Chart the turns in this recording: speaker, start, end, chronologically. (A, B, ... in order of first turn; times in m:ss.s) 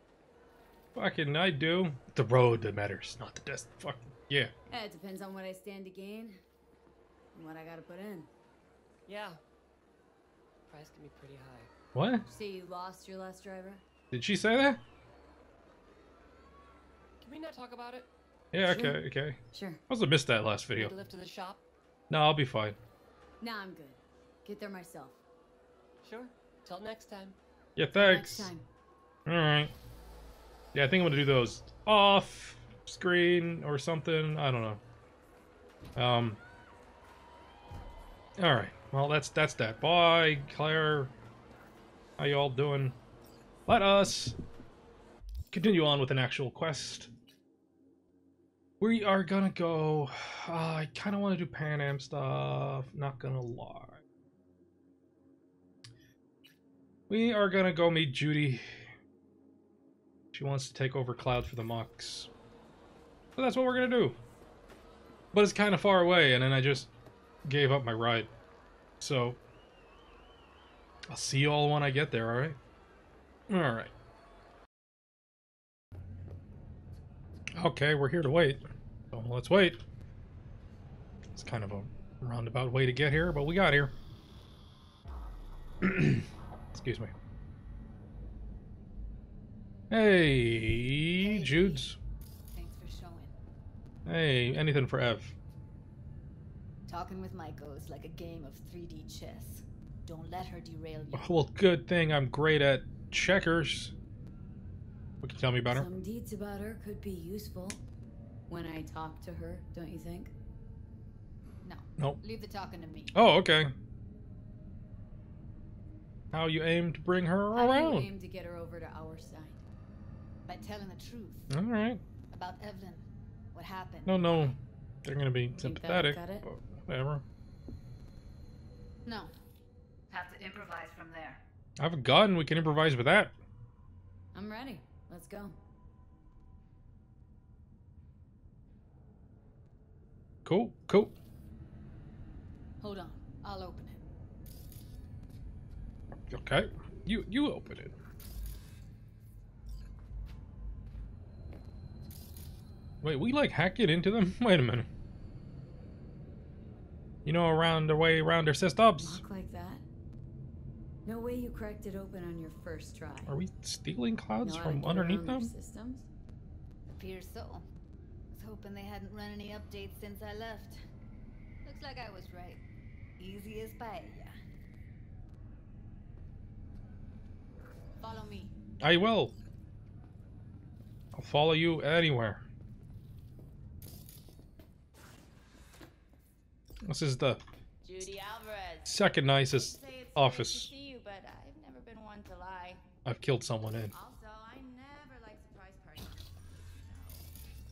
0:00.9-0:04.5 A
0:04.7-0:06.4 B
0:07.3-0:08.3 B
0:09.0-0:09.4 C
0:10.7-0:11.7 C
0:11.9-0:12.2 A
0:12.3-0:13.8 B
0:14.1-0:14.8 A
0:17.2-0:18.1 C
0:18.5-0:19.4 A
0:18.6-0:19.0 B
0:19.5-0:19.8 B
0:19.9-0:20.9 A
0:20.7-0:21.6 C
0:22.1-0:22.8 A
0:23.4-0:25.2 B
0:26.0-0:27.4 C
0:27.8-0:28.5 A
0:27.9-0:28.6 B
0:29.2-0:29.7 A
0:30.7-0:34.8 A
0:36.0-0:36.4 A
0:38.4-0:41.1 A
0:42.2-0:43.0 A
0:43.7-0:44.3 A
0:45.5-0:47.1 A
0:48.8-0:54.0 A
0:57.1-0:58.8 A
1:00.3-1:02.3 A
1:03.4-1:04.2 A
1:05.3-1:06.9 A
1:07.4-1:08.3 A
1:09.0-1:09.4 A
1:11.1-1:12.6 A
1:13.5-1:13.9 A
1:17.5-1:19.8 A
1:21.3-1:23.9 A
1:25.8-1:27.1 A
1:29.9-1:32.0 A
1:31.2-1:31.9 D
1:32.5-1:33.3 D
1:34.0-1:35.3 A
1:36.9-1:41.4 D
1:41.1-1:43.9 A
1:45.2-1:45.9 A
1:45.7-1:47.8 B
1:48.5-1:50.3 B
1:51.6-1:53.1 D
1:53.1-1:53.7 A
1:56.3-1:58.1 A
1:57.5-1:59.6 B
2:00.5-2:01.5 D
2:01.5-2:02.0 A
2:02.3-2:04.6 D
2:04.0-2:07.2 A
2:05.6-2:06.4 B
2:09.0-2:09.3 D
2:10.1-2:11.4 D
2:11.8-2:13.3 A
2:14.3-2:15.6 B
2:20.4-2:21.1 A
2:22.8-2:24.0 D
2:26.2-2:27.9 A
2:33.0-2:34.9 A
2:37.2-2:39.2 A
2:39.0-2:39.8 B
2:41.0-2:43.4 B
2:43.2-2:45.5 A
2:44.4-2:46.1 B
2:46.9-2:47.6 D
2:48.3-2:50.8 D
2:51.6-2:52.6 D
2:53.2-2:54.3 D
2:58.0-2:58.5 D
2:58.8-2:59.3 A
3:01.1-3:02.4 A
3:06.8-3:07.4 A
3:07.8-3:12.8 E
3:08.8-3:10.7 A
3:13.0-3:13.9 A
3:13.9-3:17.3 E